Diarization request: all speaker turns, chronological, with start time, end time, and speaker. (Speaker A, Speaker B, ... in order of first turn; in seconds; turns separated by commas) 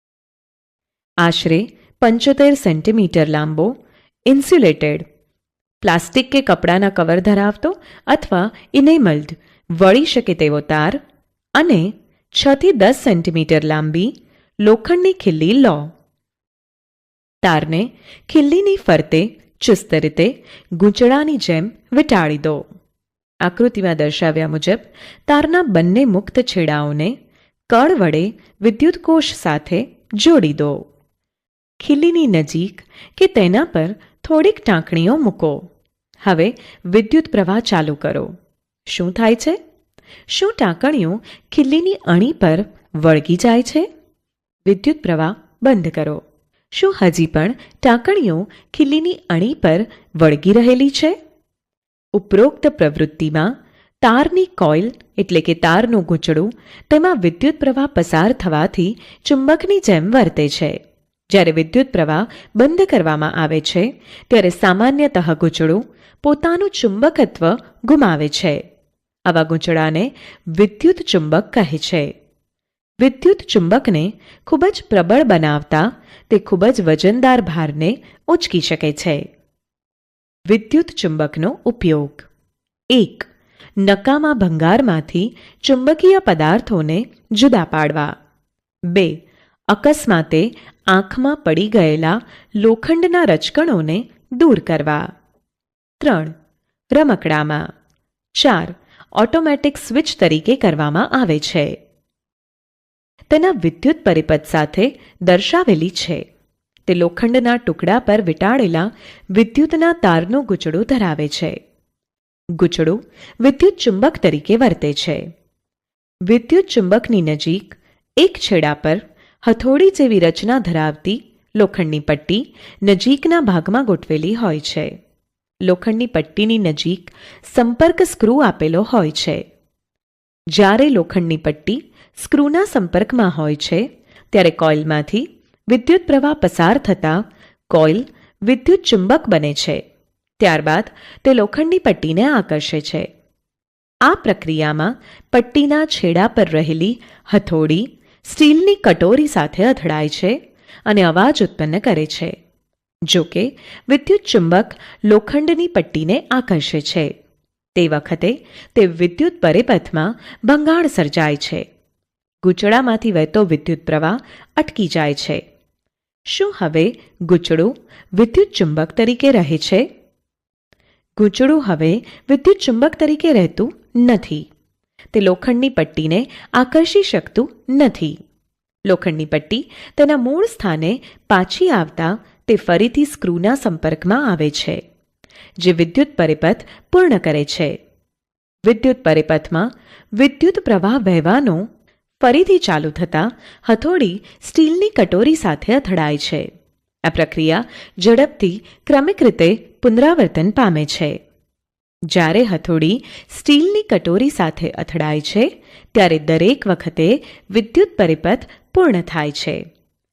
Speaker A: 1.2-3.8, Speaker A: 4.3-5.0, Speaker A: 5.8-11.0, Speaker A: 11.6-15.9, Speaker A: 17.4-22.6, Speaker A: 23.4-27.1, Speaker A: 27.7-30.8, Speaker A: 31.8-35.6, Speaker A: 36.2-38.3, Speaker A: 38.9-39.6, Speaker A: 40.3-43.9, Speaker A: 44.6-46.2, Speaker A: 46.7-51.2, Speaker A: 52.1-60.8, Speaker A: 61.3-68.6, Speaker A: 69.2-72.1, Speaker A: 73.0-79.3, Speaker A: 80.5-82.3, Speaker A: 82.9-83.3, Speaker A: 83.8-88.1, Speaker A: 88.9-95.1, Speaker A: 96.0-96.3, Speaker A: 96.9-97.7, Speaker A: 98.3-101.8, Speaker A: 103.3-106.2, Speaker A: 106.9-111.6, Speaker A: 112.5-115.3, Speaker A: 116.3-125.0, Speaker A: 125.6-129.4, Speaker A: 130.5-139.8, Speaker A: 140.4-143.1, Speaker A: 144.0-152.3, Speaker A: 153.1-157.1, Speaker A: 157.7-161.7, Speaker A: 162.4-165.4, Speaker A: 166.3-169.9, Speaker A: 171.2-174.4, Speaker A: 175.1-178.2, Speaker A: 178.9-184.8, Speaker A: 185.6-187.8, Speaker A: 188.6-191.7, Speaker A: 192.2-196.5, Speaker A: 197.0-201.2, Speaker A: 202.1-209.6